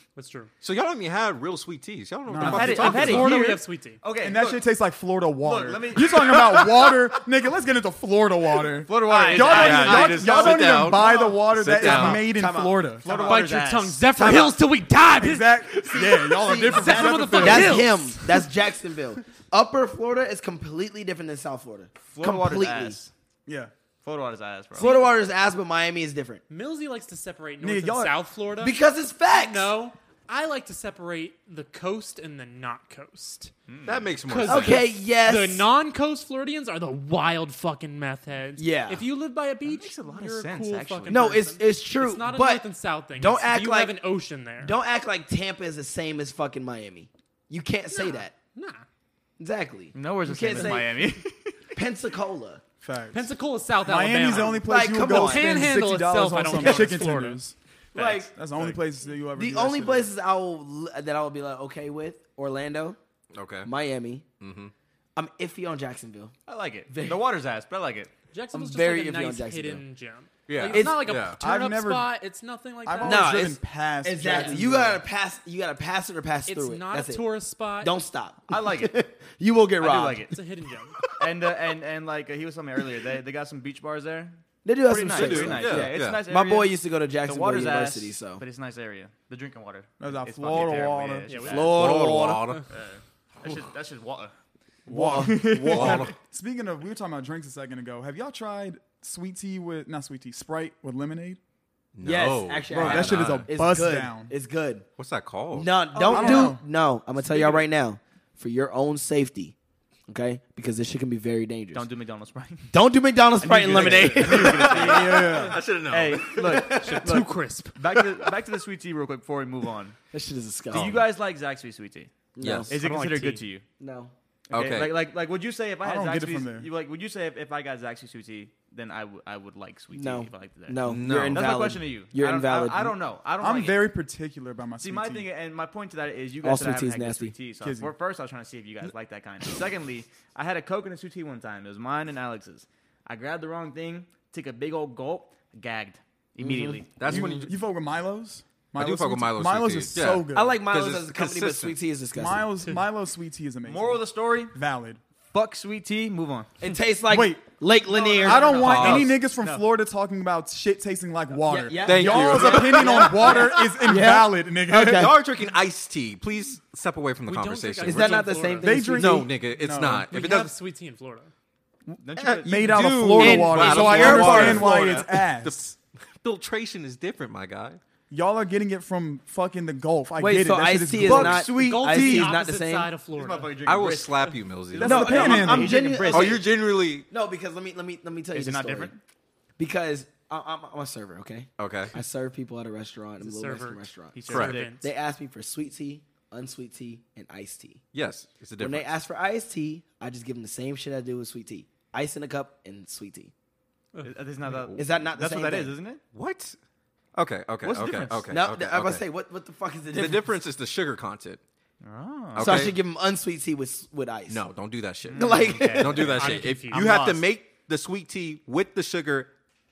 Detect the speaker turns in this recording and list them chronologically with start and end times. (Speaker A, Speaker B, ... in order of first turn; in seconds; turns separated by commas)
Speaker A: 0.1-0.5, Speaker B: 0.6-3.3, Speaker C: 2.3-3.0, Speaker D: 2.5-4.7, Speaker A: 2.5-4.0, Speaker C: 4.2-13.3, Speaker D: 5.4-6.1, Speaker D: 8.8-11.3, Speaker E: 9.0-10.1, Speaker B: 9.4-12.2, Speaker E: 11.8-13.4, Speaker D: 13.0-14.1, Speaker A: 13.2-18.5, Speaker E: 14.1-14.6, Speaker C: 15.2-17.8, Speaker E: 16.4-22.9, Speaker B: 17.1-17.8, Speaker D: 22.1-23.1, Speaker C: 23.4-23.7, Speaker D: 24.0-25.0, Speaker E: 24.8-26.4, Speaker A: 24.8-25.1, Speaker A: 26.5-28.8, Speaker C: 27.6-28.1, Speaker E: 28.6-29.7, Speaker A: 29.3-33.5, Speaker D: 33.7-34.1, Speaker B: 33.8-34.9, Speaker A: 34.3-44.8, Speaker E: 34.5-35.7, Speaker E: 38.6-39.0, Speaker D: 39.6-41.2, Speaker E: 41.1-44.0, Speaker E: 44.6-48.3, Speaker A: 47.9-48.8, Speaker E: 49.4-51.0, Speaker D: 49.9-51.5, Speaker E: 51.7-52.6, Speaker C: 52.8-57.5, Speaker A: 53.1-57.4, Speaker E: 54.4-55.5, Speaker E: 56.6-56.9, Speaker E: 57.9-58.3, Speaker D: 57.9-58.8, Speaker C: 58.4-60.1, Speaker E: 59.3-63.0, Speaker B: 63.3-63.7, Speaker E: 63.6-64.2, Speaker B: 64.4-64.7, Speaker E: 65.2-66.3, Speaker D: 66.5-68.1, Speaker E: 66.9-67.2, Speaker A: 68.3-73.4, Speaker E: 68.5-69.8, Speaker B: 70.5-71.4, Speaker E: 70.7-71.0, Speaker C: 71.3-72.1, Speaker C: 72.8-75.0, Speaker E: 73.0-80.4, Speaker A: 76.5-78.0, Speaker D: 78.5-78.9, Speaker D: 79.8-80.3, Speaker A: 80.3-81.0, Speaker D: 81.1-94.3, Speaker E: 84.6-88.4, Speaker B: 85.1-86.2, Speaker C: 90.0-91.3, Speaker A: 91.2-92.6, Speaker E: 91.5-92.4, Speaker B: 91.5-92.6, Speaker E: 94.9-96.1, Speaker C: 94.9-101.4, Speaker D: 95.2-96.1, Speaker B: 95.5-96.1, Speaker B: 101.9-103.5, Speaker E: 102.0-104.8, Speaker D: 102.7-103.2, Speaker C: 102.8-104.3, Speaker B: 105.0-105.8, Speaker E: 105.5-109.5, Speaker D: 105.9-106.5, Speaker C: 106.1-106.6, Speaker D: 107.3-107.6, Speaker E: 110.1-111.9, Speaker D: 111.7-112.7, Speaker E: 112.7-115.3, Speaker D: 113.4-115.3, Speaker B: 114.2-116.7, Speaker C: 114.7-115.6, Speaker D: 115.9-120.0, Speaker E: 116.5-117.2, Speaker A: 116.8-117.8, Speaker E: 120.1-121.0, Speaker D: 120.7-122.1, Speaker E: 122.3-122.7, Speaker B: 122.4-123.4, Speaker D: 122.7-123.6, Speaker A: 122.7-123.4, Speaker E: 123.8-124.1, Speaker D: 124.5-133.9, Speaker B: 124.5-124.9, Speaker C: 125.8-126.7, Speaker E: 129.9-133.0, Speaker B: 130.8-131.4, Speaker C: 133.4-135.3, Speaker D: 134.8-147.2, Speaker E: 136.4-137.3, Speaker C: 137.6-137.9, Speaker E: 146.4-146.8, Speaker B: 147.0-147.6, Speaker C: 147.0-150.6, Speaker B: 148.8-151.8, Speaker E: 150.3-152.5, Speaker C: 152.1-155.0, Speaker D: 153.6-154.5, Speaker D: 155.3-156.5, Speaker E: 156.6-159.0, Speaker C: 157.1-157.5, Speaker D: 157.9-159.6, Speaker C: 158.2-165.2, Speaker B: 158.6-159.1, Speaker E: 161.4-165.2, Speaker B: 161.8-163.8, Speaker B: 164.7-170.5, Speaker A: 167.3-168.8, Speaker E: 167.8-169.3, Speaker C: 168.6-170.1, Speaker A: 170.1-171.3, Speaker D: 172.0-173.0, Speaker B: 172.2-177.8, Speaker C: 172.4-175.7, Speaker E: 173.1-175.0, Speaker C: 178.1-181.5, Speaker E: 180.2-182.9, Speaker D: 181.0-182.3, Speaker A: 181.4-183.6, Speaker D: 183.1-186.4, Speaker B: 183.7-185.4, Speaker E: 184.8-186.5, Speaker C: 184.8-185.9, Speaker B: 186.1-187.1, Speaker E: 187.1-188.9, Speaker D: 188.3-189.0, Speaker E: 189.6-197.8, Speaker B: 191.6-191.9, Speaker A: 193.2-194.9, Speaker D: 194.1-194.8, Speaker B: 194.3-194.6, Speaker B: 197.9-198.9, Speaker E: 198.6-203.3, Speaker D: 204.0-206.0, Speaker B: 204.4-204.8, Speaker E: 204.8-205.7, Speaker B: 206.1-206.6, Speaker B: 207.1-209.1, Speaker D: 207.6-208.3, Speaker E: 208.3-210.3, Speaker B: 209.9-211.4, Speaker D: 211.8-212.7, Speaker B: 212.3-212.8, Speaker E: 212.4-214.4, Speaker B: 214.3-219.3, Speaker D: 215.1-216.0, Speaker E: 215.1-216.2, Speaker A: 216.0-217.2